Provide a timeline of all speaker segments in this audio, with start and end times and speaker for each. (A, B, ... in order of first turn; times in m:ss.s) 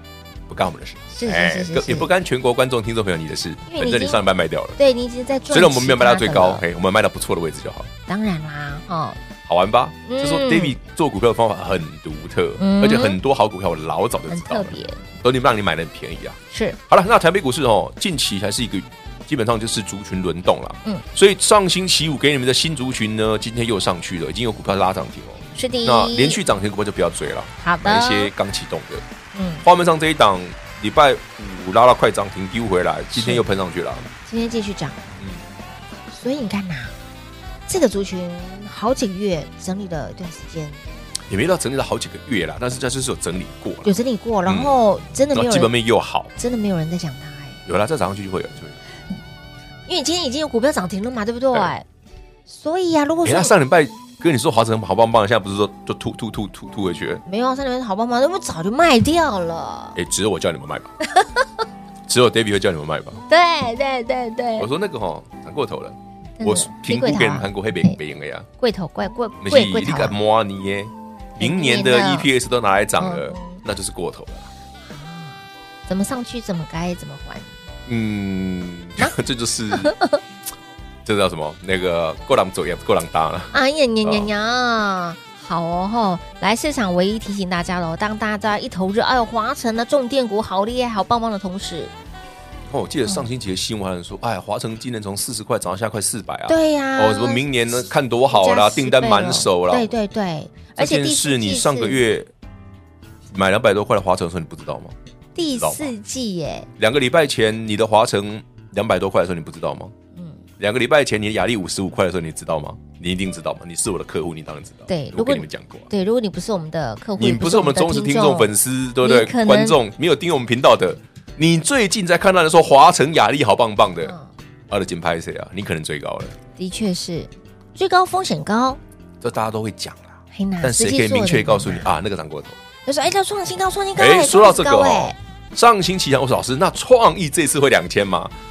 0:00.5-0:04.8 A
0:01.1-0:02.1 B
0:03.7-0:04.2 B
0:04.8-0:06.6 B
0:05.5-0:07.9 A
0:08.1-0:09.2 B
0:09.4-0:29.0 A
0:10.0-0:10.8 B
0:12.6-0:13.2 B
0:14.3-0:15.0 B
0:16.5-0:16.8 B
0:25.5-0:26.4 B
0:27.6-0:28.3 B
0:29.3-0:29.6 B
0:29.6-0:34.1 A
0:33.1-0:33.4 B
0:34.2-0:35.0 B
0:36.1-0:36.9 B
0:37.7-0:40.8 B
0:41.3-0:43.9 A
0:43.8-0:45.7 B
0:44.4-0:44.8 A
0:45.3-0:46.3 A
0:46.4-0:47.6 B
0:47.6-0:48.8 A
0:49.9-0:51.8 B
0:52.5-0:53.6 B
0:53.2-0:57.2 A
0:57.2-1:00.0 B
1:00.0-1:00.9 A
1:01.1-1:01.4 B
1:02.1-1:03.2 A
1:03.3-1:04.7 B
1:04.6-1:08.5 A
1:06.4-1:08.0 B
1:08.6-1:10.1 B
1:09.4-1:14.5 A
1:11.4-1:12.3 B
1:13.0-1:13.6 B
1:14.8-1:17.5 B
1:17.9-1:19.9 A
1:19.7-1:20.2 B
1:21.0-1:24.3 A
1:23.5-1:31.9 B
1:32.7-1:39.9 A
1:36.5-1:42.0 B
1:40.8-1:42.3 A
1:43.3-1:44.9 A
1:45.4-1:46.7 B
1:45.6-1:45.9 A
1:46.8-1:49.9 A
1:50.6-1:55.9 A
1:54.9-1:59.8 B
1:57.2-2:04.1 A
2:04.0-2:04.3 B
2:04.7-2:06.4 A
2:06.6-2:08.8 B
2:09.2-2:12.6 A
2:10.3-2:11.9 B
2:12.9-2:15.2 B
2:14.0-2:18.3 A